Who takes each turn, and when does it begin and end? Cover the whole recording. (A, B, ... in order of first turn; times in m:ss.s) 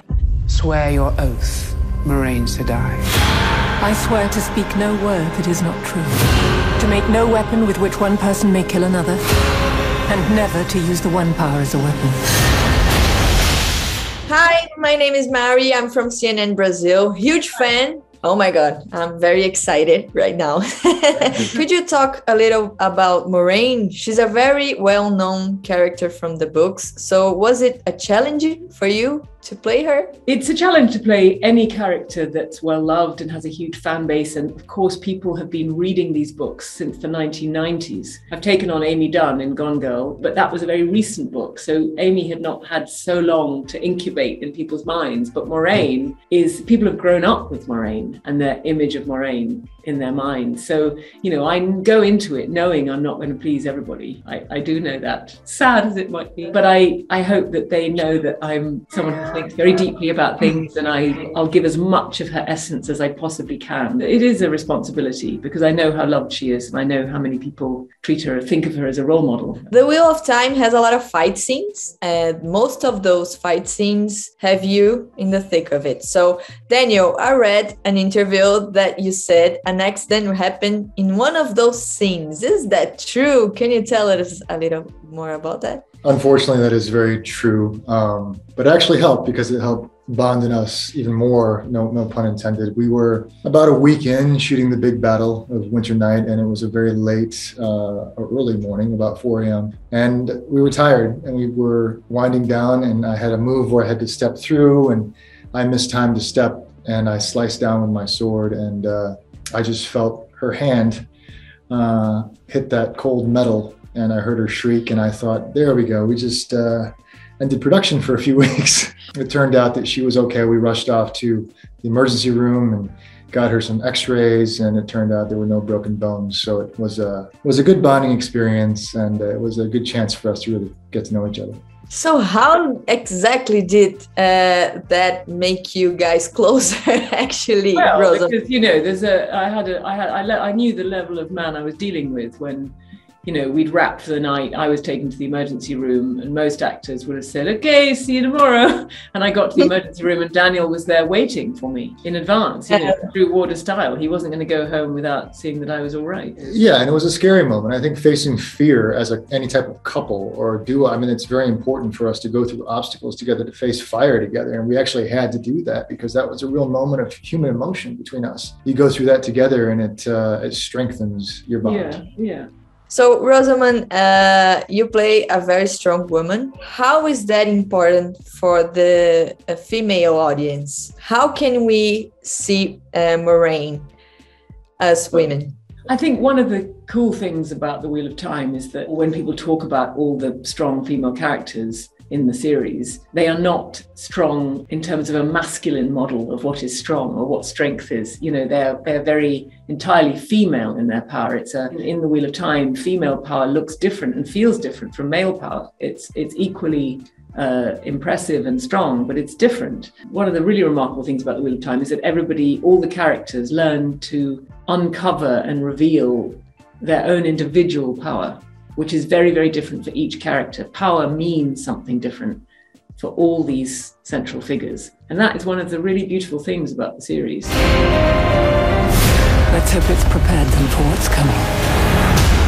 0:00.5-0:03.1 A
0:03.8-0:09.2 B
0:10.1-0:12.2 B
0:14.3-0:30.1 C
0:30.3-1:09.7 D
1:09.7-1:25.8 C
1:26.0-1:51.1 E
1:51.7-2:11.6 E
2:11.9-2:18.3 C
2:17.7-2:22.7 D
2:23.2-2:36.6 D
2:36.4-2:52.0 E
2:51.6-2:52.5 D
2:52.9-3:03.9 C
3:04.8-3:05.6 C
3:05.9-3:42.4 D
3:43.0-3:47.6 D
3:49.5-3:51.5 B